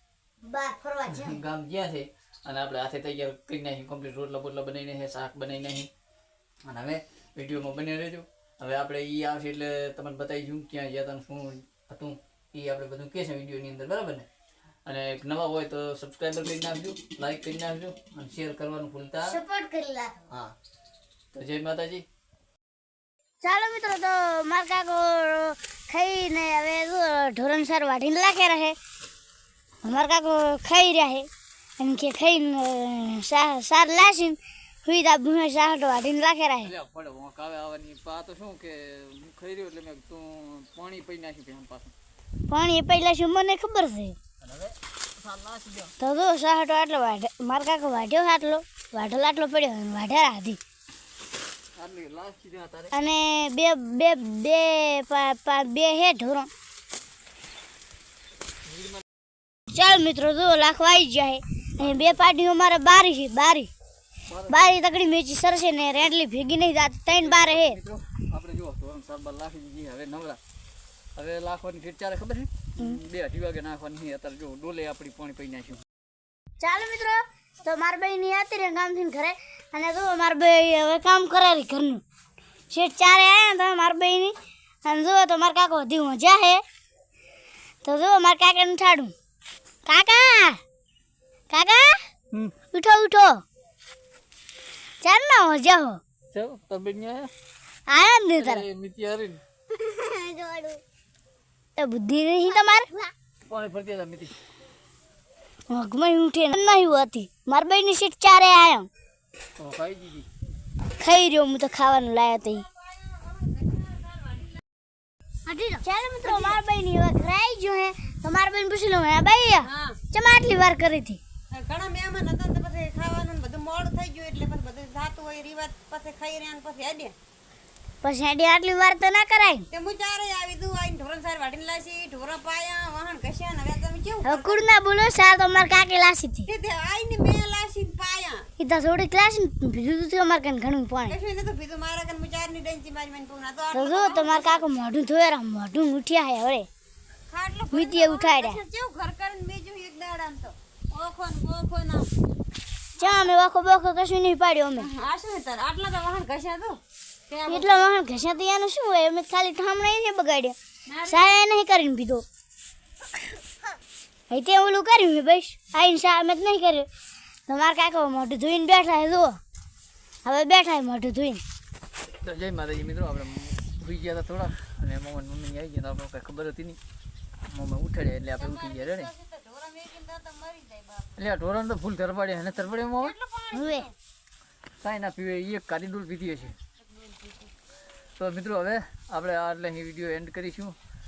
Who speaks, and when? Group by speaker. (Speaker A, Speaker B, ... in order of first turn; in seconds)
Speaker A: 0.4-1.4, 19.3-20.2, 23.4-28.8, 29.8-31.3, 31.8-36.7, 42.5-44.1, 46.0-50.6, 52.9-56.5, 59.7-63.7, 64.5-67.8, 76.6-82.0, 82.7-86.6, 87.8-89.1, 89.8-90.6, 91.5-92.0, 92.7-93.4, 95.0-96.0, 97.9-98.7, 99.8-100.8, 101.8-102.9, 105.7-108.9, 111.0-112.7, 115.5-121.2, 128.0-129.7, 134.2-136.5, 138.6-141.2, 143.7-146.7, 147.7-148.6, 153.0-154.9, 157.5-162.2, 164.3-166.9, 167.5-169.4, 170.2-171.4, 183.5-183.9
Speaker B: 1.1-5.9, 6.7-14.2, 14.8-19.4, 21.3-22.0, 36.6-41.9, 44.4-45.9, 51.8-52.9, 58.7-59.0, 61.8-62.3, 64.3-64.7, 67.2-70.4, 71.2-75.8, 96.3-97.3, 98.4-99.4, 103.5-104.3, 109.6-110.3, 172.2-176.8, 177.4-179.1, 181.2-183.1, 184.8-186.6, 188.2-190.8
Speaker C: 113.2-114.4, 116.2-116.6, 119.6-120.0, 121.5-127.1, 129.7-134.6, 136.5-138.4, 141.1-144.7, 147.3-152.1, 154.8-157.8, 160.9-161.4, 178.4-181.2, 183.0-183.9, 186.9-187.5